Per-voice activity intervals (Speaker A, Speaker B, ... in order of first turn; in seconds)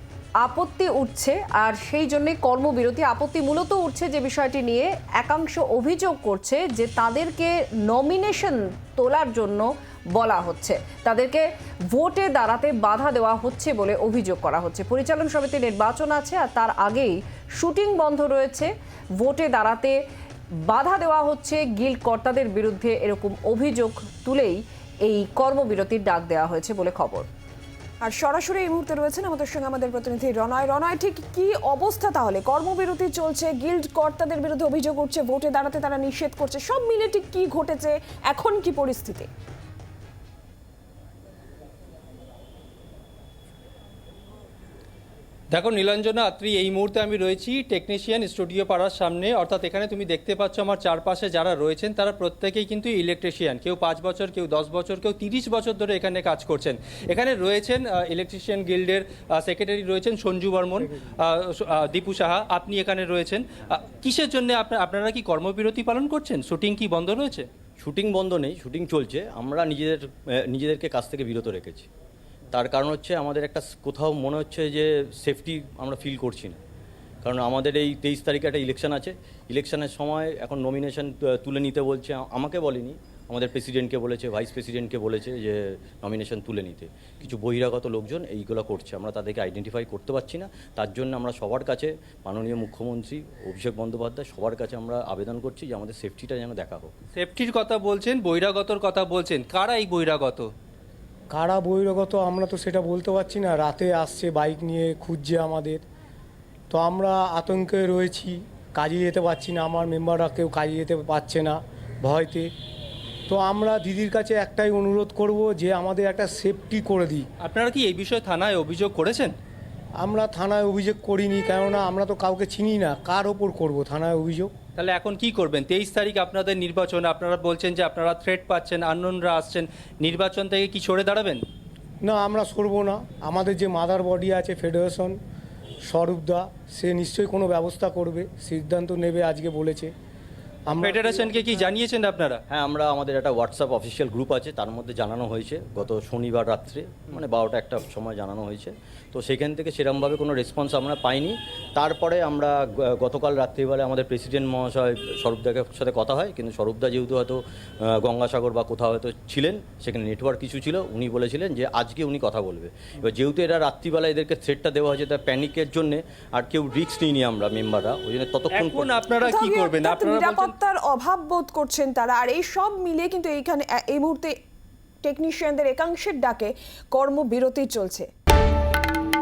Speaker A: 0.4-20.0, 20.7-27.3
Speaker B: 28.0-39.3, 169.2-174.4, 175.0-178.1
Speaker C: 45.5-67.5, 97.2-100.5, 117.4-119.3, 124.8-131.4, 140.8-142.4, 168.5-170.5
Speaker D: 67.8-71.9, 72.5-76.6, 77.2-96.9, 142.5-168.9
Speaker E: 101.3-105.8, 106.7-112.5, 113.3-117.3, 120.0-124.5, 132.0-135.2, 135.9-139.9, 140.7-141.6